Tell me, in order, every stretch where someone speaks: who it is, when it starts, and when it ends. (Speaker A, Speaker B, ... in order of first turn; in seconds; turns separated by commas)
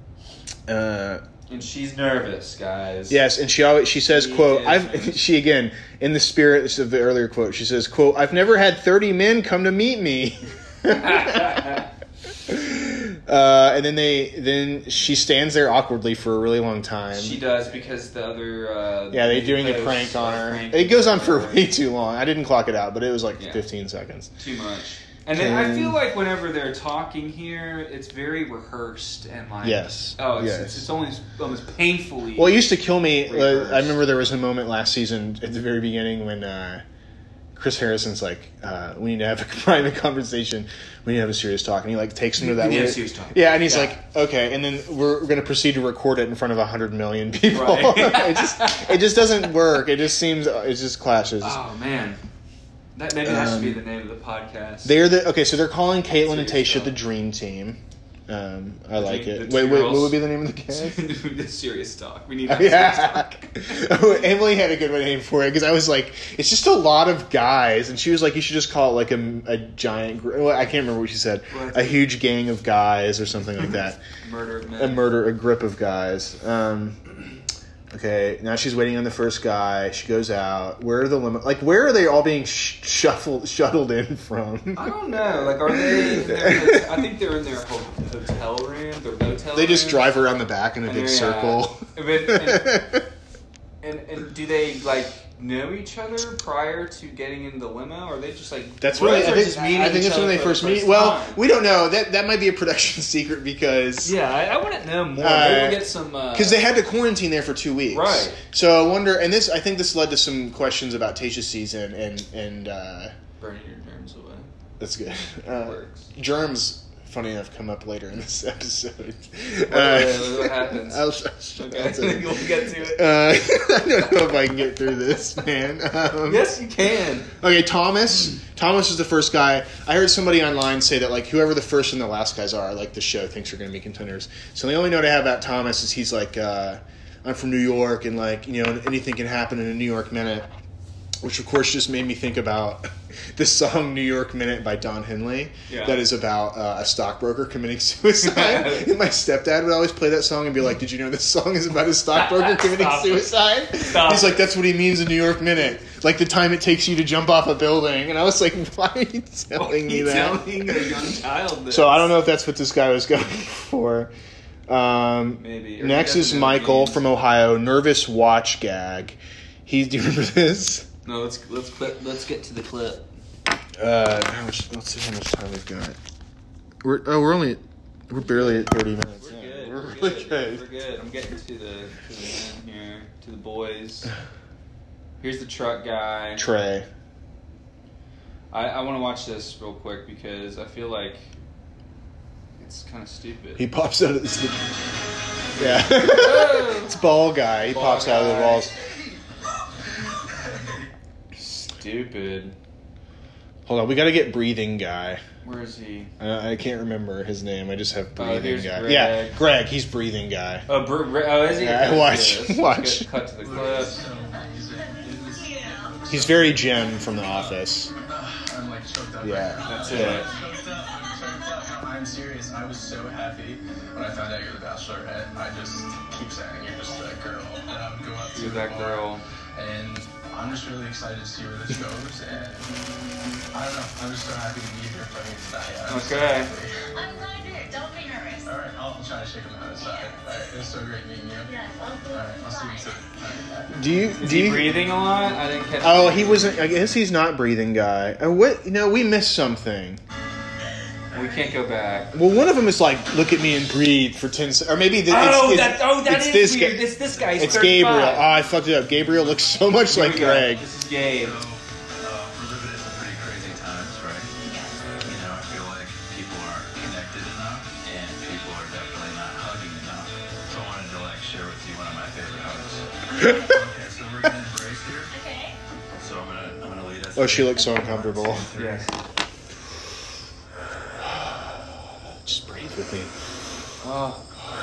Speaker A: 0.7-1.2, Speaker B: 1.5-3.2, Speaker A: 3.1-11.8, Speaker B: 4.0-5.2, Speaker B: 10.9-11.9, Speaker A: 12.5-17.4, Speaker B: 17.1-21.7, Speaker A: 19.1-24.3, Speaker B: 23.4-23.6, Speaker B: 24.4-32.7, Speaker A: 25.3-26.0, Speaker A: 29.6-30.9, Speaker A: 32.4-36.8, Speaker B: 33.2-34.0, Speaker A: 37.5-51.6, Speaker B: 42.4-44.0, Speaker B: 47.5-49.0, Speaker B: 51.4-52.2, Speaker B: 53.0-55.0, Speaker A: 53.2-53.8, Speaker A: 54.9-61.1, Speaker B: 56.2-57.0, Speaker B: 59.0-64.2, Speaker A: 62.5-74.0, Speaker B: 71.5-72.1, Speaker B: 74.2-75.1, Speaker A: 74.8-77.2, Speaker A: 77.9-87.0, Speaker B: 84.8-90.1, Speaker A: 89.5-93.1, Speaker B: 90.9-92.8, Speaker B: 93.8-101.4, Speaker A: 98.8-104.1, Speaker B: 104.0-106.6, Speaker A: 105.2-113.1, Speaker B: 107.9-108.4, Speaker B: 113.4-114.5, Speaker A: 114.8-126.5, Speaker B: 115.5-116.1, Speaker B: 119.7-121.0, Speaker B: 121.6-123.2, Speaker B: 126.3-127.3, Speaker A: 127.3-140.5, Speaker A: 141.2-161.0, Speaker B: 145.7-146.0, Speaker B: 148.2-148.9, Speaker B: 152.1-154.4, Speaker B: 159.5-162.2, Speaker A: 161.7-164.1, Speaker A: 164.7-170.9, Speaker B: 165.4-167.0, Speaker B: 171.1-173.1, Speaker A: 173.8-176.0, Speaker A: 176.8-180.6, Speaker B: 178.2-184.1, Speaker B: 185.2-186.5, Speaker A: 186.4-186.9, Speaker B: 188.5-191.2, Speaker B: 192.6-193.7, Speaker A: 193.6-194.7, Speaker B: 195.6-197.0, Speaker A: 195.6-198.8, Speaker B: 197.7-198.8, Speaker C: 200.4-200.8, Speaker B: 201.4-202.6, Speaker A: 203.7-205.2, Speaker B: 205.4-206.1, Speaker A: 206.2-210.7, Speaker B: 208.2-209.4, Speaker B: 210.7-214.0, Speaker A: 211.5-213.1, Speaker C: 213.4-232.7, Speaker D: 214.2-216.0, Speaker A: 216.1-217.9, Speaker A: 219.2-220.2, Speaker B: 219.7-220.3, Speaker D: 220.3-221.5, Speaker B: 228.3-229.2, Speaker C: 233.5-236.8, Speaker B: 235.9-236.5, Speaker D: 236.9-238.5, Speaker C: 238.4-241.5, Speaker D: 239.8-240.2, Speaker D: 241.4-243.1, Speaker C: 242.1-243.7, Speaker A: 243.7-244.8, Speaker B: 244.2-246.6, Speaker A: 245.8-250.0, Speaker B: 251.1-252.2, Speaker D: 251.1-251.5, Speaker A: 252.1-260.6, Speaker B: 255.1-258.3, Speaker C: 257.3-257.7, Speaker B: 259.9-261.4, Speaker C: 261.0-264.3, Speaker D: 264.4-264.9, Speaker C: 265.0-275.1, Speaker D: 273.1-273.6, Speaker D: 275.1-275.6, Speaker C: 275.9-278.9, Speaker A: 277.2-278.5, Speaker B: 278.6-278.9, Speaker A: 281.0-283.1, Speaker B: 283.8-284.2